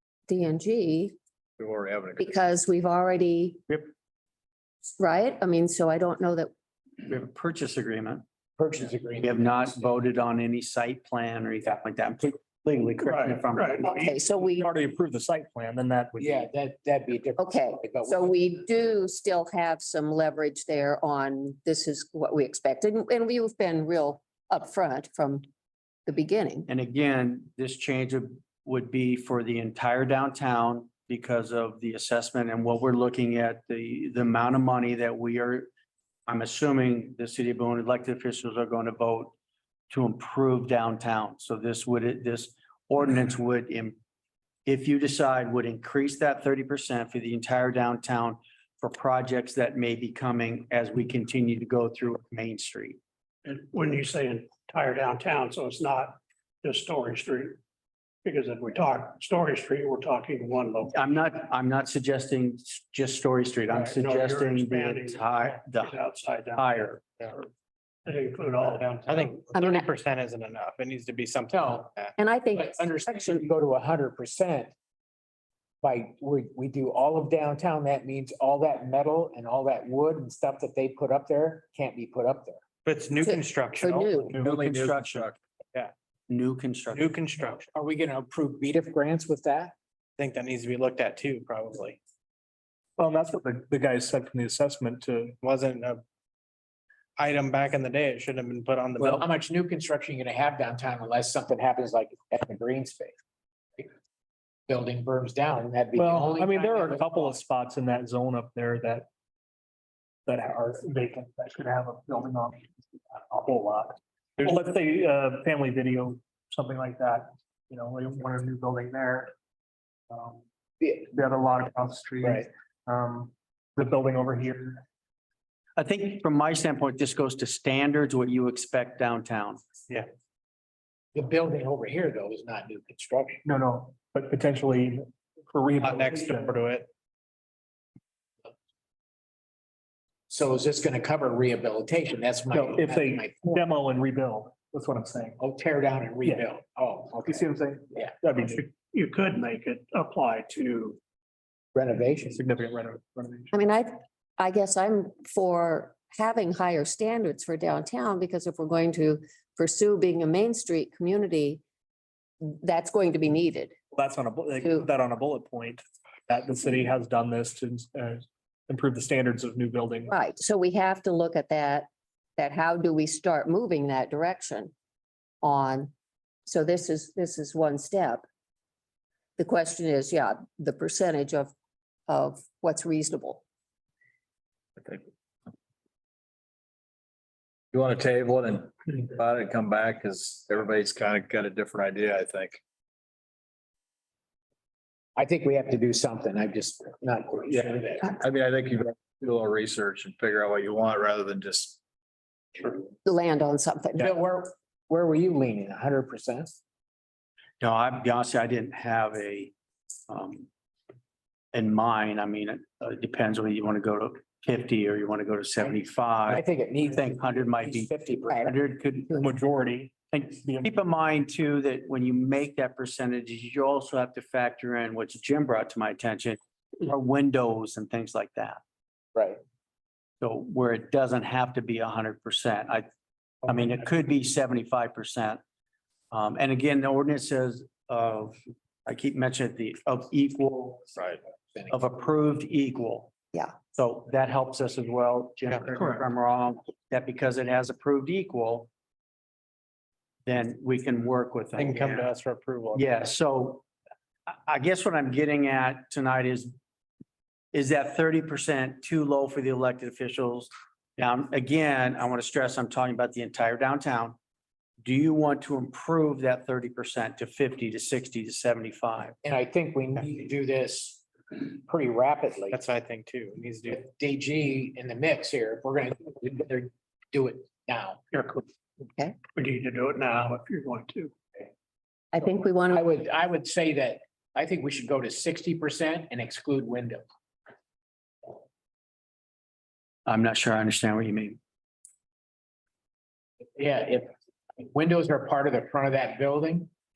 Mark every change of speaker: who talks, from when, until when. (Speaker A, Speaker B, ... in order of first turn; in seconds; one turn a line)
Speaker A: 0.3-1.1
Speaker B: 1.6-2.3
Speaker A: 2.2-3.6
Speaker A: 5.0-6.5
Speaker C: 7.1-8.2
Speaker D: 8.6-9.8
Speaker C: 9.2-13.9
Speaker E: 13.0-14.2
Speaker A: 13.8-14.7
Speaker F: 14.4-16.4
Speaker D: 16.2-18.4
Speaker A: 17.4-25.4
Speaker A: 26.1-26.7
Speaker C: 26.7-35.7
Speaker C: 36.3-39.4
Speaker C: 39.9-44.0
Speaker C: 44.7-53.0
Speaker E: 53.5-57.6
Speaker E: 58.2-61.0
Speaker C: 60.9-66.0
Speaker E: 63.7-66.9
Speaker C: 66.5-67.0
Speaker E: 68.1-69.4
Speaker G: 69.0-72.1
Speaker A: 69.5-69.9
Speaker D: 71.5-71.9
Speaker A: 72.2-73.5
Speaker D: 72.5-74.7
Speaker D: 75.8-82.6
Speaker G: 82.8-84.5
Speaker A: 83.2-84.3
Speaker B: 84.4-85.4
Speaker C: 84.4-85.3
Speaker C: 86.3-87.1
Speaker G: 86.9-87.7
Speaker D: 87.8-89.7
Speaker G: 90.2-92.0
Speaker F: 93.0-95.4
Speaker G: 95.4-96.0
Speaker G: 97.2-99.2
Speaker D: 99.0-103.2
Speaker D: 104.7-107.4
Speaker F: 106.0-109.1
Speaker F: 110.2-119.3
Speaker F: 120.1-120.4
Speaker F: 121.0-124.8
Speaker D: 122.2-122.5
Speaker C: 125.8-129.6
Speaker D: 131.2-133.4
Speaker F: 133.4-136.6
Speaker G: 135.8-136.9
Speaker D: 140.3-143.7
Speaker F: 142.5-145.4
Speaker D: 145.4-148.1
Speaker F: 147.2-148.7
Speaker E: 148.6-151.0
Speaker D: 151.8-152.4
Speaker F: 152.2-153.5
Speaker A: 153.5-161.6
Speaker A: 162.4-163.8
Speaker F: 163.9-170.1
Speaker A: 164.6-164.9
Speaker A: 170.1-174.7
Speaker A: 175.4-175.9
Speaker A: 176.5-178.2
Speaker A: 179.4-181.5
Speaker A: 182.1-183.4
Speaker B: 187.7-192.6
Speaker D: 195.2-198.2
Speaker B: 197.7-201.8
Speaker A: 203.0-204.1
Speaker D: 204.0-206.5
Speaker C: 207.6-209.5
Speaker C: 210.1-210.5
Speaker C: 211.5-217.9
Speaker D: 216.3-218.5
Speaker C: 218.4-219.2
Speaker F: 219.2-220.7
Speaker C: 220.1-228.6
Speaker D: 229.2-229.4
Speaker C: 230.2-232.8
Speaker C: 233.5-235.4
Speaker C: 236.1-240.8
Speaker B: 240.9-241.2
Speaker D: 241.5-241.8
Speaker C: 241.7-243.1
Speaker C: 243.7-248.7
Speaker G: 245.7-246.0
Speaker C: 250.2-252.1
Speaker G: 251.6-252.8
Speaker C: 252.7-253.6
Speaker C: 254.3-256.5
Speaker C: 257.5-264.2
Speaker C: 264.8-269.1
Speaker D: 269.2-272.6
Speaker G: 272.5-273.8
Speaker D: 273.7-278.0
Speaker E: 278.1-278.4
Speaker E: 279.4-281.1
Speaker A: 282.1-282.9
Speaker D: 282.7-287.1
Speaker C: 290.1-291.4
Speaker D: 293.6-296.7